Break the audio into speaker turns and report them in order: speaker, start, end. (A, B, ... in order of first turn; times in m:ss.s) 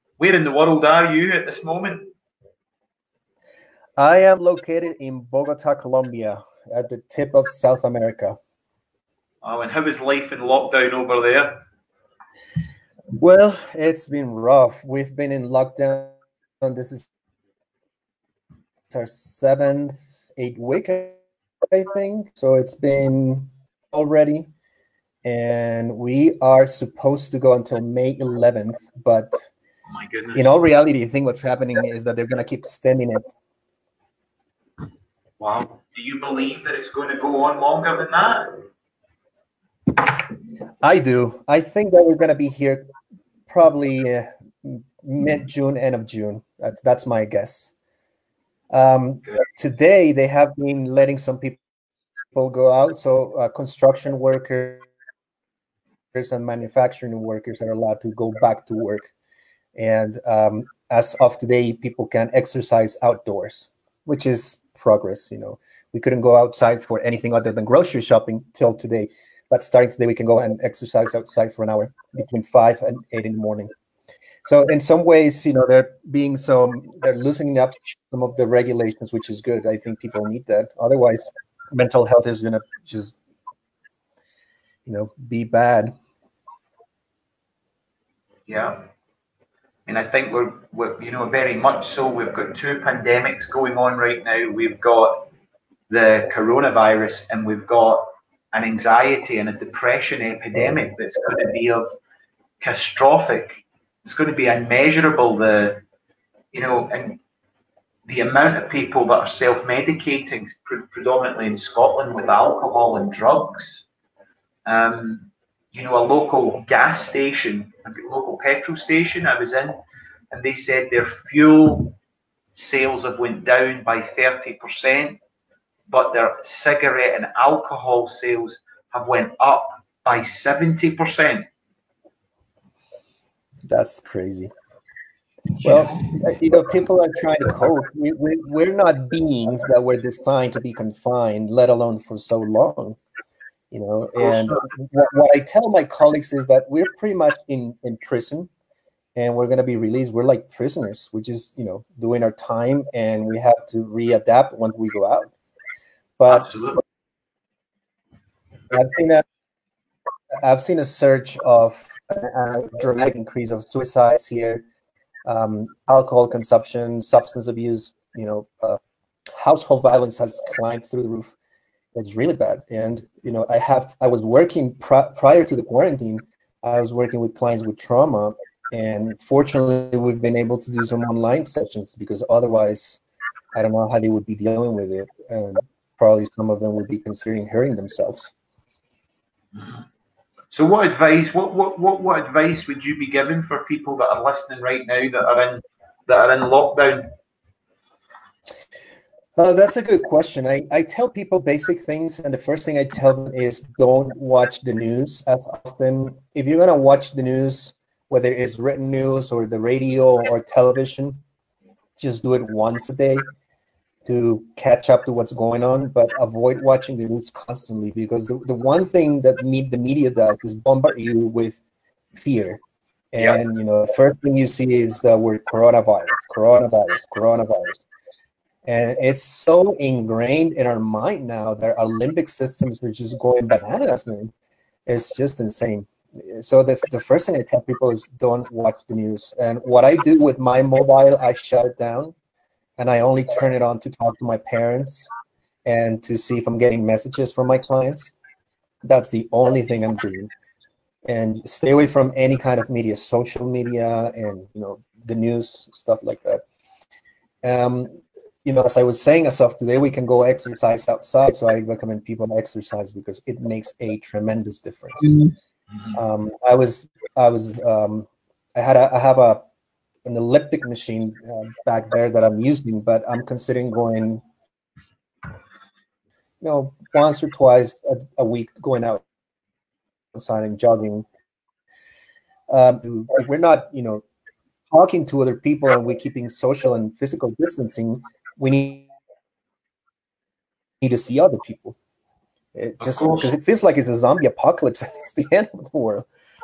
0:00.2-0:02.1 A
0:04.0-0:08.4 B
0:09.4-0:11.6 A
0:13.1-0:17.0 B
0:18.9-0:24.5 B
0:25.2-0:29.5 B
0:29.9-0:30.6 A
0:30.3-0:33.3 B
0:35.4-0:38.6 A
0:40.8-0:42.9 B
0:43.5-0:47.7 B
0:48.7-0:51.6 B
0:52.3-0:54.8 B
0:56.1-0:59.1 B
0:59.7-1:13.7 B
1:14.4-1:23.1 B
1:24.8-1:25.9 B
1:28.5-1:28.8 A
1:29.8-1:35.3 A
1:35.9-1:41.9 A
1:42.6-1:45.8 A
1:46.5-1:47.2 A
1:48.0-1:53.9 A
1:54.6-1:59.8 A
2:00.3-2:02.0 A
2:02.5-2:05.2 A
2:05.9-2:11.5 A
2:13.7-2:14.5 B
2:15.6-2:16.1 A
2:15.6-2:23.0 B
2:23.7-2:28.5 B
2:24.2-2:24.7 A
2:29.2-2:35.3 B
2:36.2-2:36.5 B
2:36.3-2:36.8 A
2:38.7-2:39.2 B
2:40.4-2:44.6 B
2:45.2-2:48.8 B
2:49.3-2:51.3 B
2:51.9-3:03.0 B
3:03.5-3:08.3 B
3:09.5-3:09.8 A
3:10.5-3:17.1 A
3:19.4-3:31.2 B
3:32.0-3:33.2 B
3:34.0-3:41.6 B
3:42.1-3:42.6 B
3:43.1-3:47.8 B
3:48.6-3:54.3 B
3:54.8-4:02.1 B
4:02.8-4:05.1 B
4:05.6-4:08.1 B
4:08.8-4:10.3 B
4:11.0-4:16.4 B
4:17.4-4:25.2 B
4:25.9-4:29.4 B
4:30.0-4:34.2 B
4:36.4-4:39.0 B
4:40.1-4:41.0 B
4:42.5-4:44.0 B
4:44.7-4:48.9 B
4:50.8-4:51.8 B
4:52.5-4:56.1 B
4:52.8-4:53.3 A